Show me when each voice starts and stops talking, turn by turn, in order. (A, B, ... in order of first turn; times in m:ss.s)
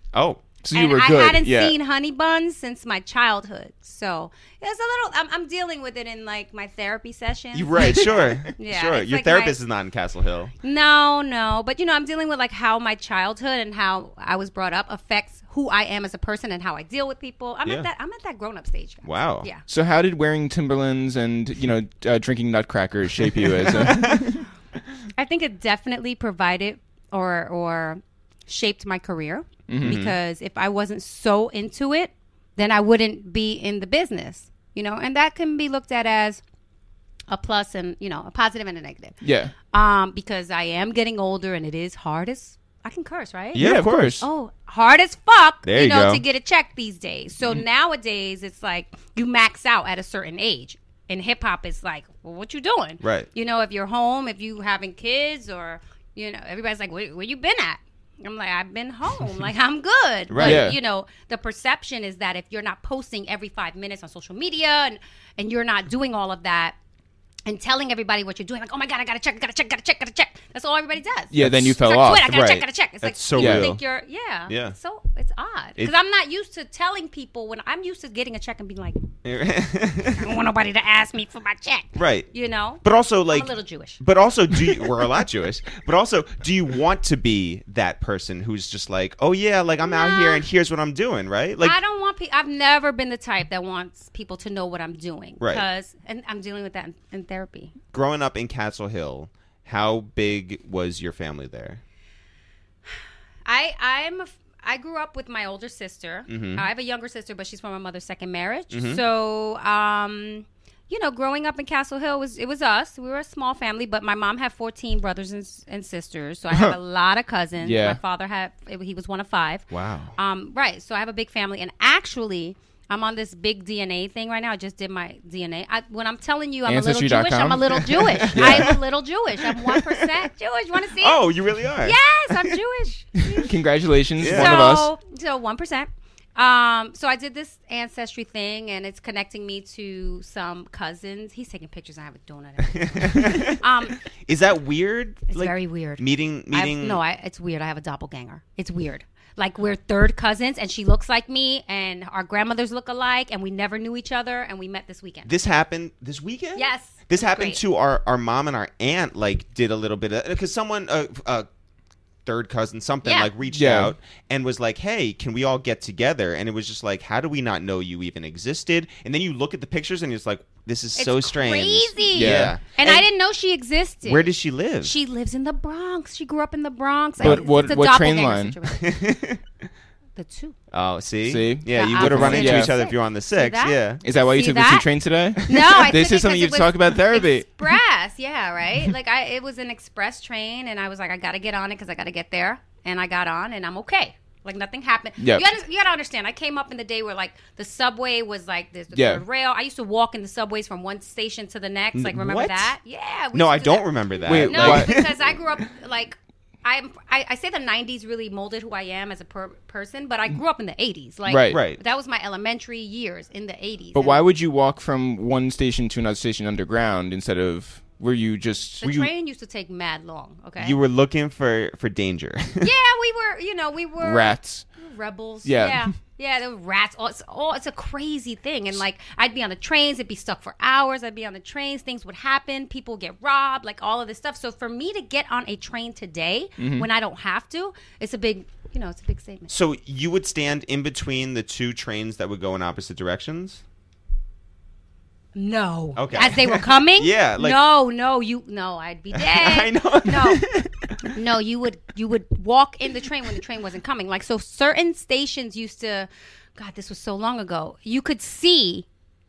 0:00.1-0:00.4 A
0:00.6-0:01.8 B
0:00.7-0:09.6 C
0:07.5-0:10.5 A
0:10.6-0:19.6 C
0:19.0-0:19.5 A
0:19.7-0:24.4 B
0:23.6-0:24.3 A
0:25.2-0:36.4 C
0:29.7-0:30.0 B
0:29.8-0:30.2 A
0:37.3-0:39.2 C
0:39.2-0:39.5 B
0:39.7-1:06.8 C
0:43.5-0:44.2 A
0:43.6-0:44.2 B
0:45.6-0:46.2 A
0:53.0-0:53.3 A
1:00.3-1:00.7 A
1:00.4-1:00.8 B
1:07.5-1:19.0 C
1:11.3-1:12.4 B
1:11.4-1:11.7 A
1:12.3-1:13.8 A
1:13.4-1:13.7 B
1:14.5-1:14.8 A
1:19.2-1:20.3 A
1:20.2-1:24.0 C
1:22.0-1:22.3 A
1:22.8-1:31.8 A
1:29.8-1:30.4 C
1:31.6-1:37.7 C
1:37.9-1:41.8 A
1:43.5-2:11.3 C
1:46.3-1:46.7 A
1:48.7-1:49.0 A
1:56.5-1:56.8 B
1:57.6-1:58.0 B
1:59.7-2:00.2 A
2:06.7-2:08.8 B
2:08.3-2:08.8 A
2:09.5-2:10.1 A
2:11.0-2:12.5 A
2:11.8-2:13.6 C
2:13.4-2:14.9 B
2:14.2-2:14.7 A
2:14.2-2:24.0 C
2:22.7-2:23.6 A
2:24.2-2:27.0 A
2:25.3-2:35.3 C
2:35.3-2:41.5 A
2:36.6-2:37.6 C
2:42.2-2:53.1 A
2:43.0-2:43.3 C
2:43.5-2:43.9 B
2:51.0-2:59.1 C
2:52.1-2:52.6 B
2:54.0-2:54.9 A
2:57.2-2:57.5 A
2:57.2-2:58.6 B
2:58.7-2:59.4 A
3:00.2-3:00.6 C
3:00.7-3:04.0 A
3:01.3-3:02.8 B
3:01.7-3:34.2 C
3:04.0-3:07.7 B
3:15.2-3:15.5 B
3:18.9-3:19.2 B
3:21.9-3:22.7 A
3:23.3-3:25.4 A
3:24.3-3:25.0 B
3:31.3-3:31.6 B
3:31.5-3:31.8 A
3:33.9-3:38.8 B
3:38.8-3:40.8 C
3:38.8-3:39.1 A
3:40.6-3:42.7 A
3:42.6-3:59.5 C
3:44.0-3:44.7 B
3:45.4-3:45.9 B
3:56.6-3:56.9 B
3:59.5-4:03.6 A
4:05.4-4:10.5 C
4:06.0-4:07.6 A
4:09.1-4:11.1 A
4:11.0-4:18.9 C